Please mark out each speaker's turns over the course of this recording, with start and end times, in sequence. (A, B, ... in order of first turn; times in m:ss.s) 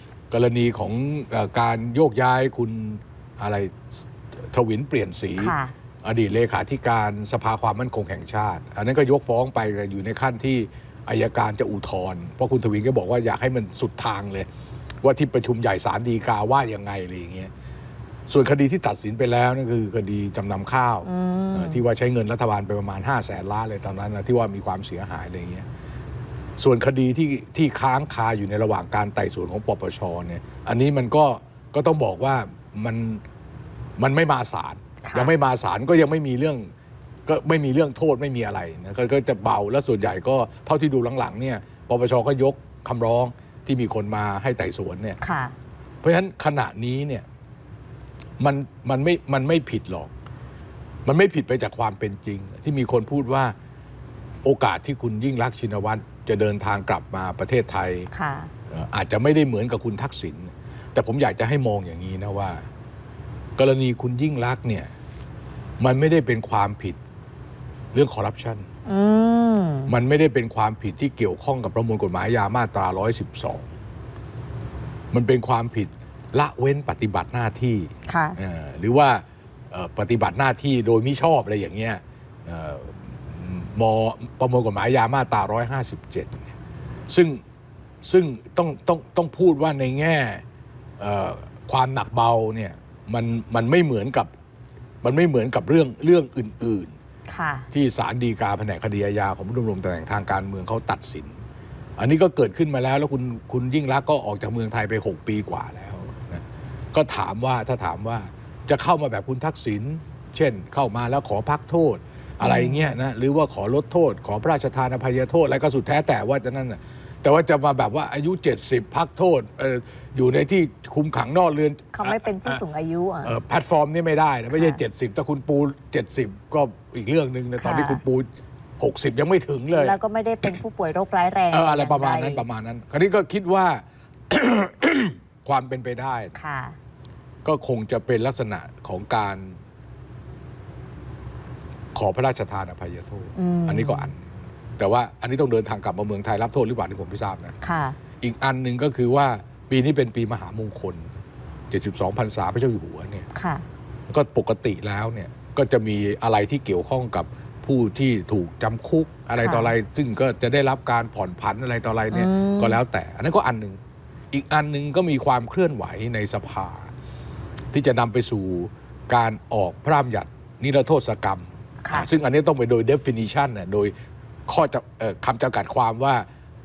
0:00.3-0:14.5 A
0:05.4-0:05.8 B
0:15.0-0:17.5 A
0:18.3-0:25.7 A
0:21.0-0:21.8 B
0:26.6-0:33.2 A
0:34.0-0:36.7 A
0:35.0-0:35.3 B
0:37.3-0:45.2 A
0:45.2-0:45.6 B
0:46.0-0:47.2 A
0:48.4-0:50.1 A
0:51.0-0:53.5 A
0:54.4-0:58.1 A
0:58.1-0:58.5 B
0:58.7-1:02.6 A
1:03.6-1:04.9 A
1:05.8-1:07.0 A
1:07.9-1:08.7 A
1:08.9-1:09.9 B
1:09.9-1:13.7 A
1:15.1-1:26.5 A
1:18.1-1:18.4 B
1:27.1-1:27.4 A
1:28.0-1:30.4 A
1:31.0-1:34.3 A
1:35.0-1:36.9 A
1:37.3-1:37.7 B
1:37.7-1:41.4 A
1:42.0-2:02.6 A
1:52.4-1:52.9 B
2:01.9-2:03.4 B
2:03.2-2:08.3 A
2:04.5-2:04.8 B
2:07.6-2:08.0 B
2:08.8-2:10.5 A
2:09.7-2:12.4 B
2:11.5-2:16.3 A
2:16.4-2:16.8 B
2:17.4-2:19.6 A
2:22.0-2:24.2 A
2:23.4-2:24.1 B
2:24.8-2:27.6 A
2:27.6-2:28.0 B
2:28.2-2:31.1 A
2:31.7-2:33.3 A
2:33.3-2:33.6 B
2:34.1-2:43.8 A
2:39.4-2:39.7 B
2:42.1-2:42.8 B
2:44.3-2:46.9 A
2:47.7-2:53.9 A
2:51.8-2:52.1 B
2:54.5-2:56.2 A